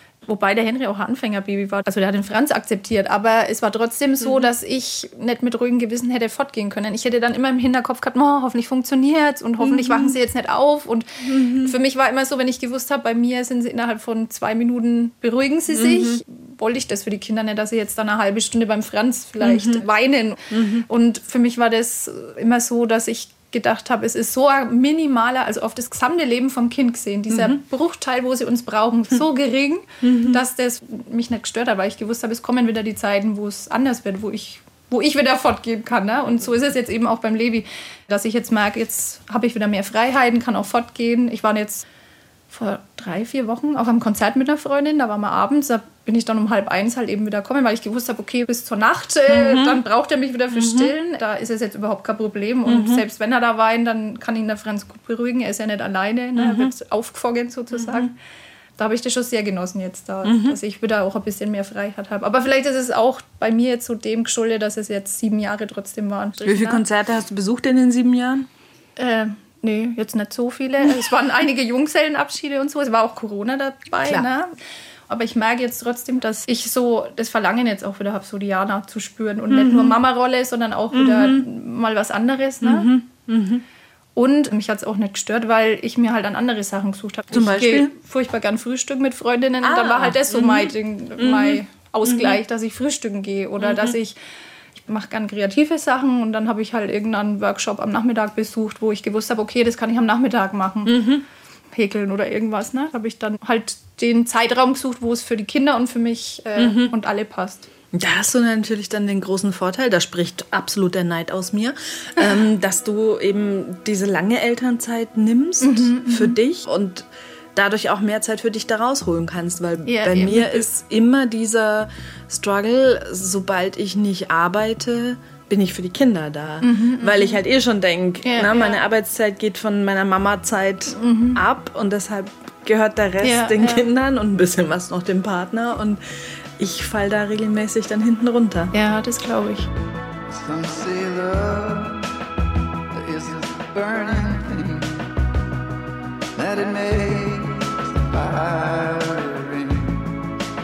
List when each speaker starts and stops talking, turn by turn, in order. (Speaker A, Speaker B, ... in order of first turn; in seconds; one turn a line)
Speaker A: 0.2-41.9
Speaker B: 4.2-4.5
Speaker B: 9.6-10.2
Speaker B: 11.2-11.8
Speaker B: 15.7-16.2
Speaker B: 19.4-19.8
Speaker B: 20.5-20.9
Speaker B: 27.3-27.6
Speaker B: 30.0-30.4
Speaker A: 42.5-58.1
Speaker B: 49.3-49.8
Speaker B: 50.5-50.9
Speaker B: 52.7-53.0
Speaker B: 56.4-56.7
Speaker B: 57.7-58.1
Speaker A: 58.8-66.8
Speaker B: 60.2-60.6
Speaker B: 66.4-68.5
Speaker A: 69.0-74.5
Speaker A: 75.1-82.9
Speaker B: 79.5-80.0
Speaker B: 80.9-81.5
Speaker B: 82.6-83.6
Speaker A: 84.2-94.2
Speaker B: 87.3-87.9
Speaker B: 89.6-92.4
Speaker B: 93.6-94.0
Speaker A: 94.8-101.1
Speaker B: 100.8-101.2
Speaker A: 101.7-107.7
Speaker B: 106.6-106.9
Speaker B: 107.9-136.0
Speaker A: 115.6-116.4
Speaker A: 119.8-120.7
Speaker A: 126.6-127.4
Speaker A: 128.2-128.8
Speaker A: 130.9-131.4
Speaker A: 133.2-133.8
Speaker B: 136.6-138.7
Speaker A: 138.7-139.7
Speaker C: 140.3-142.1
Speaker C: 142.9-145.1
Speaker C: 146.3-150.1